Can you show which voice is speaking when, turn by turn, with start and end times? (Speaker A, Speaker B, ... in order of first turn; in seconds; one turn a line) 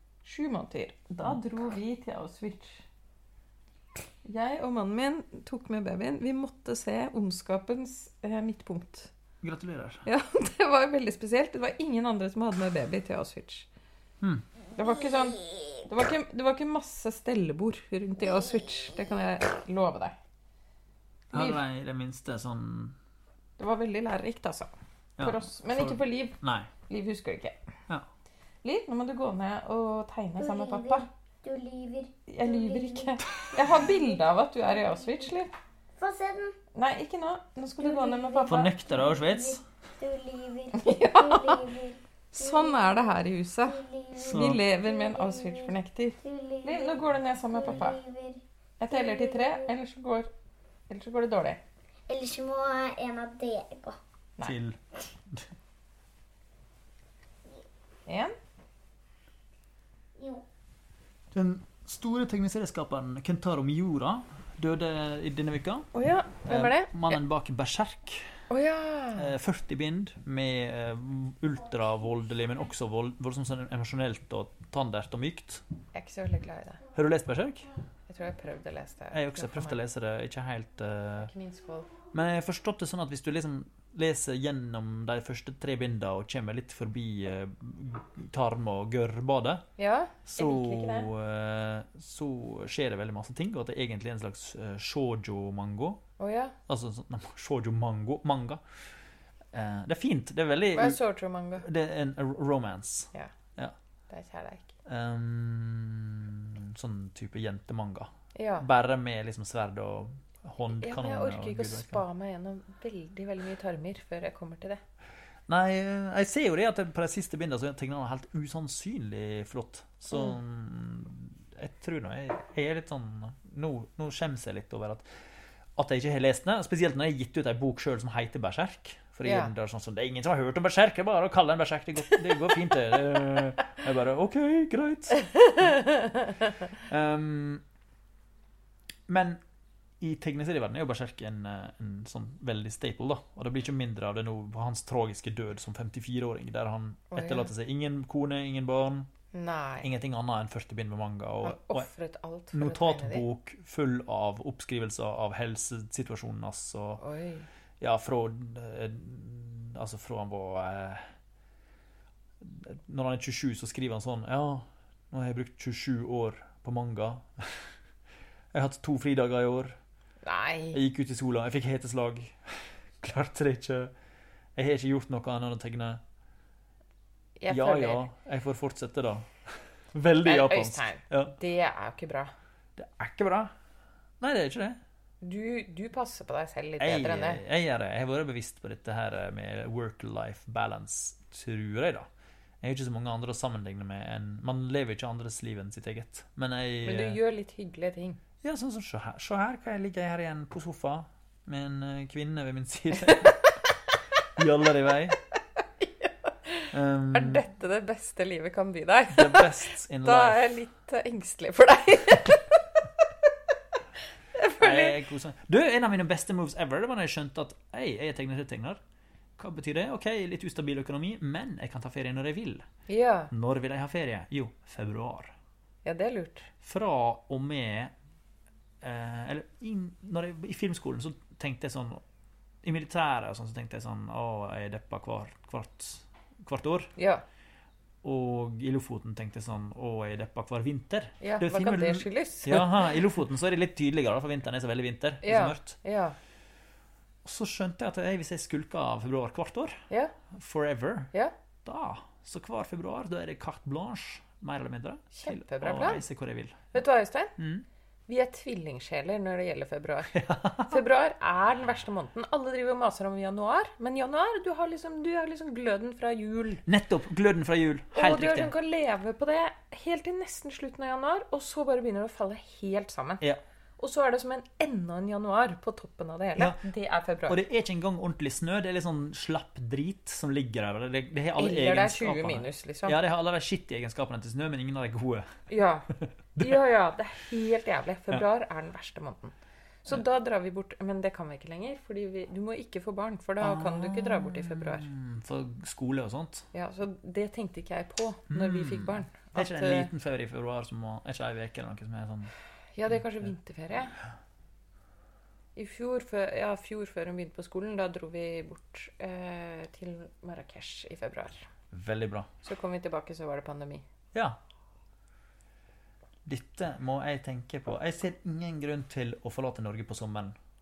Speaker A: 0.2-2.8
Speaker A: 4.2-9.1
Speaker B: 9.4-10.1
Speaker A: 10.1-13.7
Speaker A: 14.8-20.2
Speaker A: 21.3-21.6
Speaker B: 21.3-23.0
Speaker A: 23.6-24.7
Speaker B: 25.2-26.7
Speaker A: 25.2-27.6
Speaker A: 28.6-31.1
Speaker C: 30.4-34.2
Speaker A: 32.3-35.5
Speaker C: 34.8-35.2
Speaker C: 36.0-36.6
Speaker A: 36.7-38.7
Speaker C: 37.8-43.1
Speaker B: 38.5-39.6
Speaker A: 40.7-41.7
Speaker A: 42.3-48.0
Speaker C: 43.7-49.7
Speaker B: 44.1-44.6
Speaker A: 48.8-50.3
Speaker A: 50.9-51.6
Speaker C: 52.1-54.0
Speaker B: 54.4-55.5
Speaker A: 58.1-58.3
Speaker C: 60.2-60.5
Speaker B: 61.3-65.9
Speaker A: 65.9-67.2
Speaker B: 66.5-68.4
Speaker A: 68.5-69.3
Speaker B: 69.2-75.6
Speaker A: 75.9-76.8
Speaker B: 76.9-77.7
Speaker A: 78.1-79.8
Speaker B: 79.1-81.3
Speaker A: 81.2-81.9
Speaker B: 82.1-89.7
Speaker A: 89.8-91.1
Speaker B: 90.3-96.0
Speaker A: 96.2-96.6
Speaker B: 96.7-98.6
Speaker B: 99.5-101.0
Speaker A: 100.7-101.7
Speaker B: 101.6-103.8
Speaker A: 104.1-104.8
Speaker B: 104.8-112.0
Speaker A: 108.3-108.7
Speaker A: 110.7-114.8
Speaker B: 115.5-125.1
Speaker B: 125.8-135.9
Speaker A: 129.2-129.5
Speaker B: 136.8-137.6
Speaker B: 139.1-139.4
Speaker B: 140.0-149.1
Speaker A: 147.1-147.5
Speaker A: 149.3-149.9
Speaker B: 149.8-151.9
Speaker A: 151.4-153.2
Speaker B: 152.5-157.0
Speaker A: 157.0-157.5
Speaker B: 157.8-161.1
Speaker B: 162.4-167.8
Speaker B: 168.5-169.8
Speaker A: 170.2-170.8
Speaker B: 170.7-173.9
Speaker B: 174.6-176.0
Speaker A: 177.4-178.0
Speaker B: 177.5-181.3
Speaker A: 180.2-182.3
Speaker B: 182.8-183.5
Speaker B: 184.2-184.8
Speaker A: 185.2-187.4
Speaker B: 186.8-192.1
Speaker B: 192.6-197.2
Speaker A: 196.8-198.2
Speaker B: 198.4-203.4
Speaker A: 203.1-203.3
Speaker B: 204.4-205.2
Speaker A: 205.8-212.6
Speaker B: 206.7-207.5
Speaker B: 209.1-210.5
Speaker A: 214.3-215.0
Speaker B: 214.6-218.8
Speaker B: 219.4-222.7
Speaker A: 222.9-223.3
Speaker B: 223.3-225.3
Speaker A: 225.8-226.5
Speaker B: 226.6-227.9
Speaker B: 228.8-232.0
Speaker B: 232.6-236.9
Speaker A: 237.0-237.2
Speaker B: 238.0-245.8
Speaker A: 241.2-242.8
Speaker A: 245.2-246.2
Speaker B: 247.2-251.1
Speaker A: 249.9-250.2
Speaker B: 251.7-256.7
Speaker A: 255.1-256.0
Speaker A: 256.7-257.4
Speaker B: 257.4-257.6
Speaker A: 258.1-266.6
Speaker B: 260.1-260.8
Speaker B: 266.7-268.5
Speaker A: 267.9-273.2
Speaker A: 273.8-277.4
Speaker B: 277.3-285.3
Speaker A: 281.4-283.0
Speaker A: 285.5-294.9
Speaker B: 285.9-286.6
Speaker B: 293.4-296.5
Speaker A: 296.5-299.9
Speaker B: 298.3-302.3
Speaker A: 302.8-304.0
Speaker A: 305.6-311.5
Speaker B: 311.7-312.3
Speaker A: 312.4-313.8
Speaker B: 316.2-320.4